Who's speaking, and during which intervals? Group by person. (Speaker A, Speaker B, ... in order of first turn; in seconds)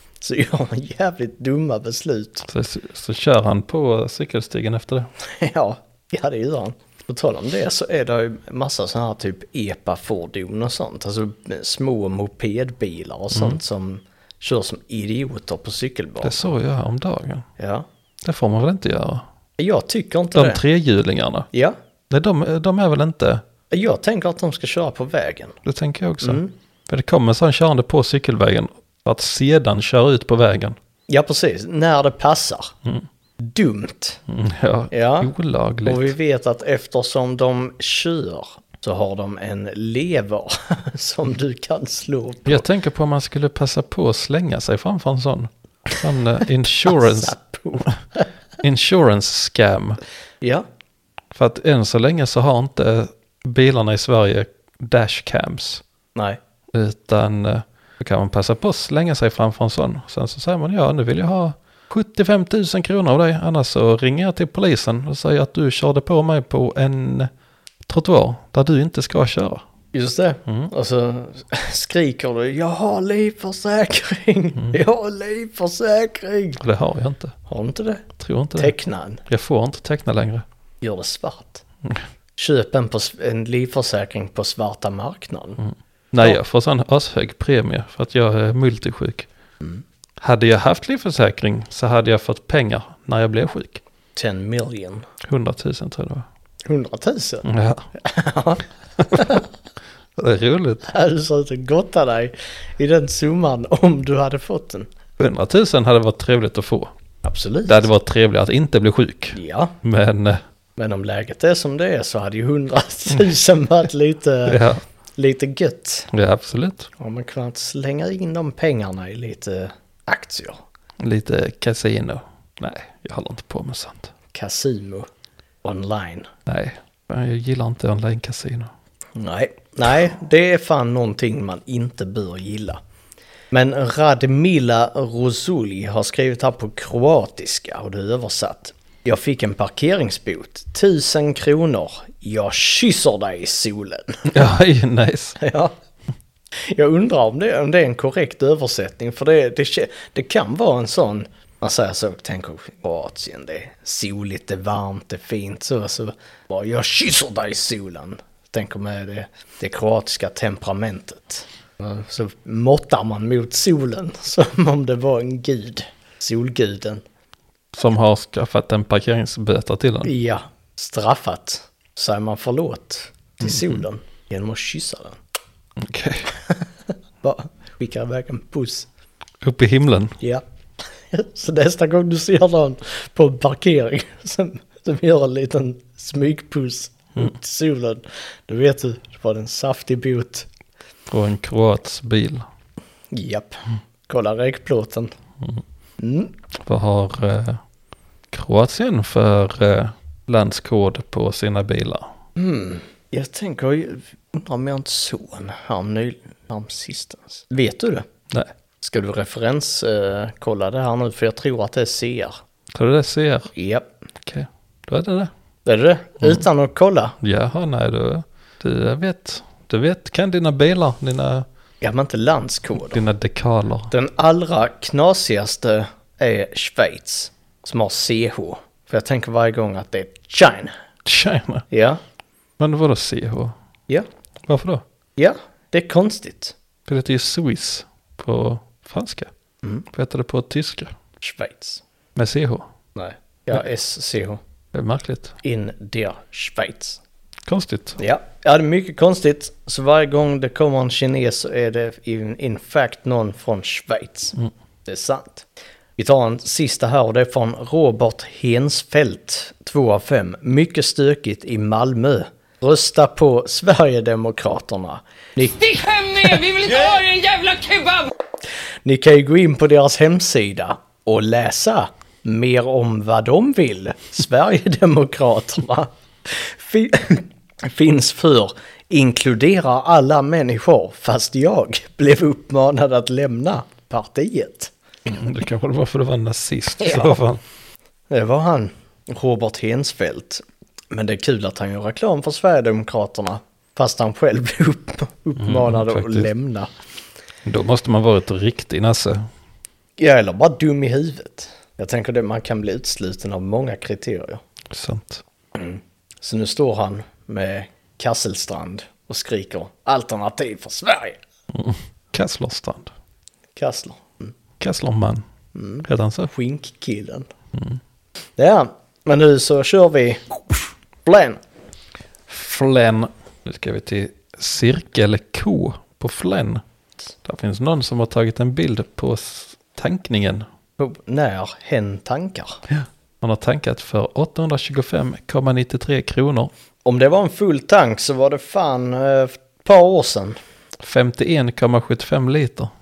Speaker A: 0.2-2.5, 5.2-16.5, 17.6-17.9, 19.6-20.6, 23.7-25.6, 26.2-26.5, 31.1-32.7, 33.4-34.2, 34.9-35.3, 35.8-42.6, 46.9-48.2, 56.1-56.4, 69.9-76.6, 77.5-79.2, 80.8-81.6, 82.4-85.6, 94.2-95.1, 96.7-99.4, 100.8-104.9, 107.2-107.9, 109.3-109.8, 110.8-114.6, 115.2-116.1, 117.0-120.6, 124.3-125.1, 125.6-126.3, 129.2-132.8, 133.5-144.3, 145.4-145.7, 146.6-167.0, 170.0-175.2, 177.2-178.9, 181.1-190.5, 193.1-195.1, 196.0-196.3, 202.3-208.0, 208.8-212.4, 213.5-213.9, 215.6-217.2, 221.8-223.0, 223.9-230.7, 231.7-232.0, 235.2-236.5, 241.2-241.8, 242.9-244.4, 245.4-247.0, 248.0-265.5, 268.8-284.7, 286.8-287.2, 288.1-296.7, 300.0-304.4, 305.5-311.2, 313.6-314.3, 315.5-317.3, 318.4-321.4, 330.8-332.6, 336.8-340.4
Speaker B: 2.5-5.1, 16.2-17.5, 18.2-19.2, 20.3-21.5, 22.1-23.4, 25.6-30.8, 34.3-36.1, 42.5-47.3, 48.6-50.0, 51.3-55.8, 56.7-67.3, 67.8-69.6, 76.6-77.3, 78.2-78.7, 79.3-80.4, 85.7-89.3, 90.2-93.8, 95.2-96.3, 97.4-97.9, 99.0-99.4, 100.2-100.8, 105.2-106.9, 107.7-110.4, 114.5-114.8, 116.1-116.9, 121.0-124.1, 126.5-128.7, 144.3-145.4, 167.7-170.1, 173.4-173.7, 175.8-176.3, 179.4-180.2, 191.1-192.5, 196.6-197.6, 198.3-202.1, 212.7-213.5, 214.2-215.3, 217.2-221.4, 222.8-223.9, 231.0-231.7, 232.6-233.5, 234.4-234.8, 236.8-239.3, 239.9-241.0, 242.1-242.7, 244.7-245.4, 247.4-248.0, 285.1-287.4, 295.4-296.3, 297.4-299.3, 304.7-305.2, 311.5-312.9, 314.6-315.2, 315.9-316.3, 317.5-317.8, 322.3-326.6, 327.2-330.5, 332.7-336.5, 340.8-342.7
Speaker C: 265.4-268.1